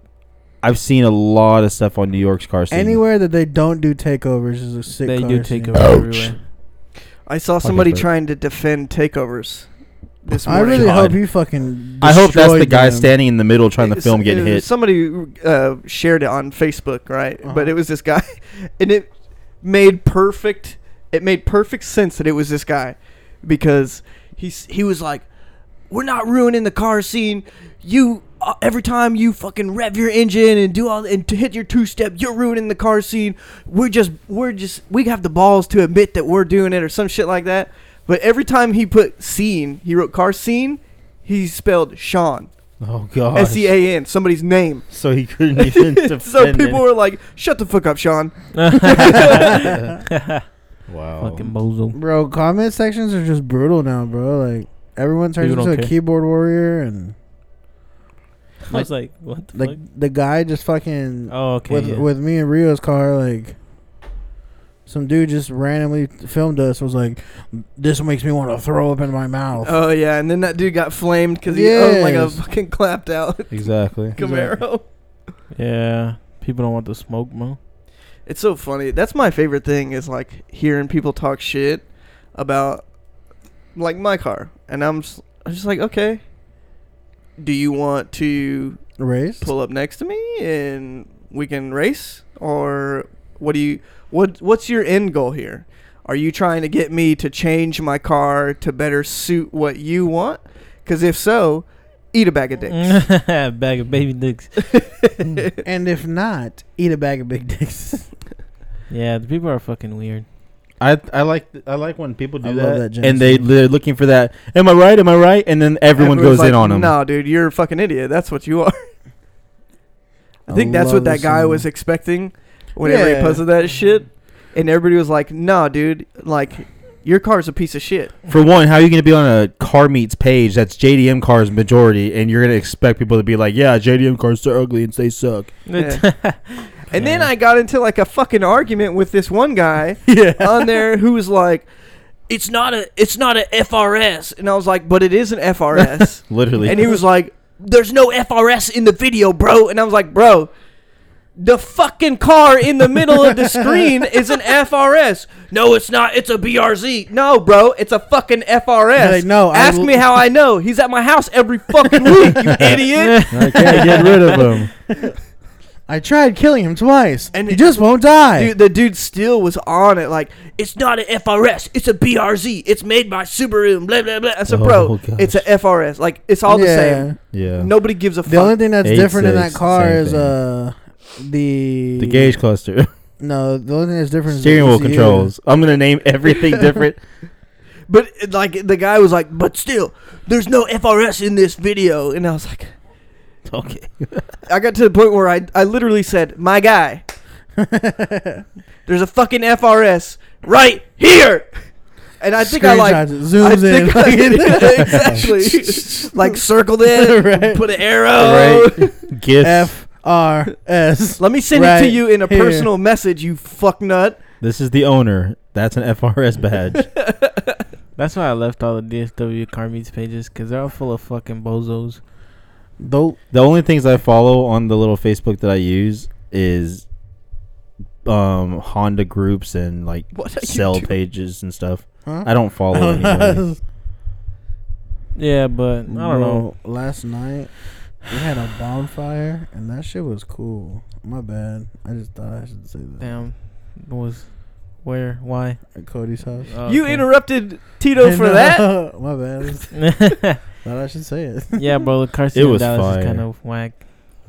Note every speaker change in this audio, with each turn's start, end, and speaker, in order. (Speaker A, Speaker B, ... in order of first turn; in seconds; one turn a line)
Speaker A: 0.6-3.0
Speaker B: 2.7-6.1
Speaker C: 5.0-6.4
Speaker D: 7.3-9.7
Speaker A: 7.6-8.1
Speaker D: 10.2-11.0
Speaker A: 10.3-11.2
Speaker B: 10.4-13.1
Speaker A: 12.0-14.7
Speaker D: 13.8-19.1
Speaker B: 17.4-17.7
Speaker D: 19.6-25.3
Speaker D: 25.9-42.5
Speaker A: 42.8-43.7
Speaker D: 43.3-44.9
Speaker A: 44.9-46.8
Speaker D: 45.5-49.6
Speaker C: 48.5-50.4
Speaker A: 49.6-49.9
Speaker A: 50.9-51.5
Speaker C: 51.2-52.0
Speaker B: 51.9-57.1
Speaker C: 55.4-55.9
Speaker C: 58.7-59.8
Speaker B: 59.5-63.5
Speaker C: 61.3-62.1
Speaker B: 64.8-69.8
Speaker D: 69.6-74.8
Speaker B: 71.5-72.4
Speaker A: 73.5-74.1
Speaker B: 74.2-74.6
Speaker C: 75.5-77.6
Speaker D: 78.2-82.8
Speaker D: 83.7-86.2
Speaker D: 87.4-88.8
Speaker B: 89.0-89.5
Speaker D: 89.4-103.0
Speaker C: 102.7-104.7
Speaker D: 104.7-105.5
Speaker B: 105.6-108.1
Speaker C: 108.9-110.2
Speaker A: 110.8-116.9
Speaker B: 112.4-113.5
Speaker D: 115.9-118.8
Speaker D: 120.5-128.2
Speaker B: 120.5-121.7
Speaker B: 122.8-123.4
Speaker A: 128.3-135.5
Speaker C: 135.7-137.3
Speaker D: 135.8-136.0
Speaker D: 136.9-141.7
Speaker B: 140.1-140.8
Speaker D: 142.3-150.5
Speaker A: 146.3-146.8
Speaker D: 151.4-164.4
Speaker B: 153.2-153.7
Speaker B: 158.9-160.0
Speaker B: 162.0-162.3
Speaker C: 163.0-163.8
Speaker A: 163.3-164.7
Speaker B: 165.9-168.5
Speaker D: 167.3-178.6
Speaker A: 174.5-175.4
Speaker B: 176.5-177.2
Speaker A: 177.3-177.7
Speaker B: 178.2-182.4
Speaker A: 178.8-180.3
Speaker A: 182.0-182.9
Speaker B: 183.2-185.3
Speaker A: 184.3-187.0
Speaker D: 186.2-186.7
Speaker D: 187.9-192.7
Speaker A: 193.4-194.3
Speaker D: 194.5-197.0
Speaker B: 197.6-198.4
Speaker D: 198.8-201.6
Speaker D: 202.2-209.0
Speaker B: 202.4-207.6
Speaker A: 208.2-209.7
Speaker B: 209.4-212.7
Speaker D: 211.2-214.2
Speaker A: 214.4-216.9
Speaker D: 216.8-217.6
Speaker C: 217.9-222.0
Speaker B: 222.8-223.2
Speaker A: 223.3-226.8
Speaker A: 228.0-233.4
Speaker D: 230.1-230.9
Speaker B: 232.0-233.6
Speaker C: 235.1-236.5
Speaker B: 235.9-243.1
Speaker C: 243.0-245.6
Speaker B: 245.7-246.5
Speaker C: 246.5-247.1
Speaker D: 246.7-248.8
Speaker B: 248.0-251.6
Speaker C: 249.7-250.4
Speaker C: 251.6-253.8
Speaker A: 252.3-253.2